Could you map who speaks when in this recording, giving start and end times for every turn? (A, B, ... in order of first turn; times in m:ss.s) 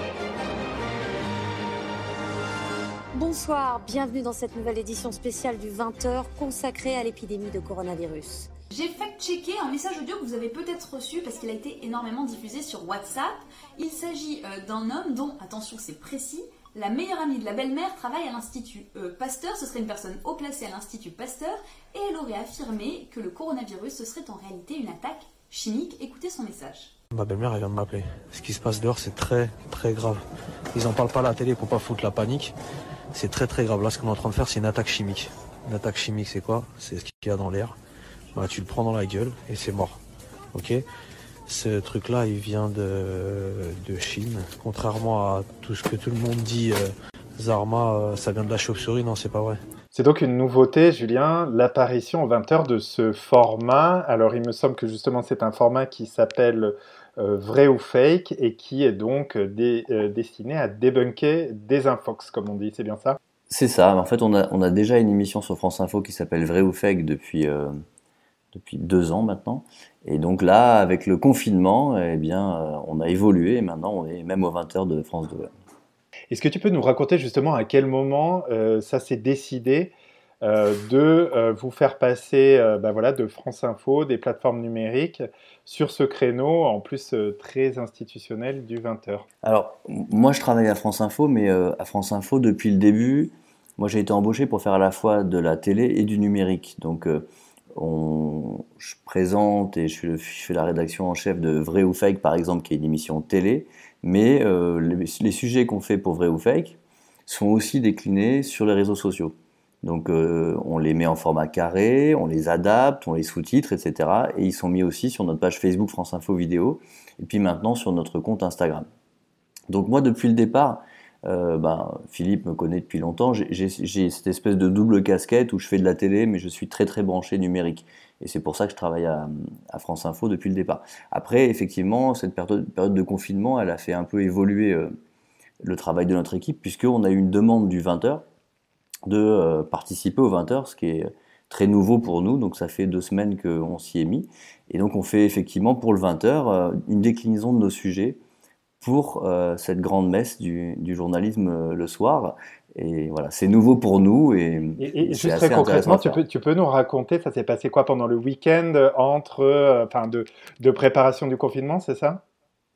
0:03.1-0:08.5 A
0:08.7-0:26.9 B
0:27.1-0:32.5 C
0:33.1-0:37.8 C
0:38.3-0:40.0 C
0:40.5-0:40.8 C
0:41.5-0:49.6 C
0:49.9-1:03.2 D
1:03.5-1:07.8 E
1:08.5-1:15.5 E
1:16.3-1:29.2 D
1:29.4-1:58.9 E
1:59.7-2:14.9 E
2:15.6-2:18.2 E
2:19.1-2:28.2 E
2:28.8-2:36.2 E
2:34.8-2:42.2 D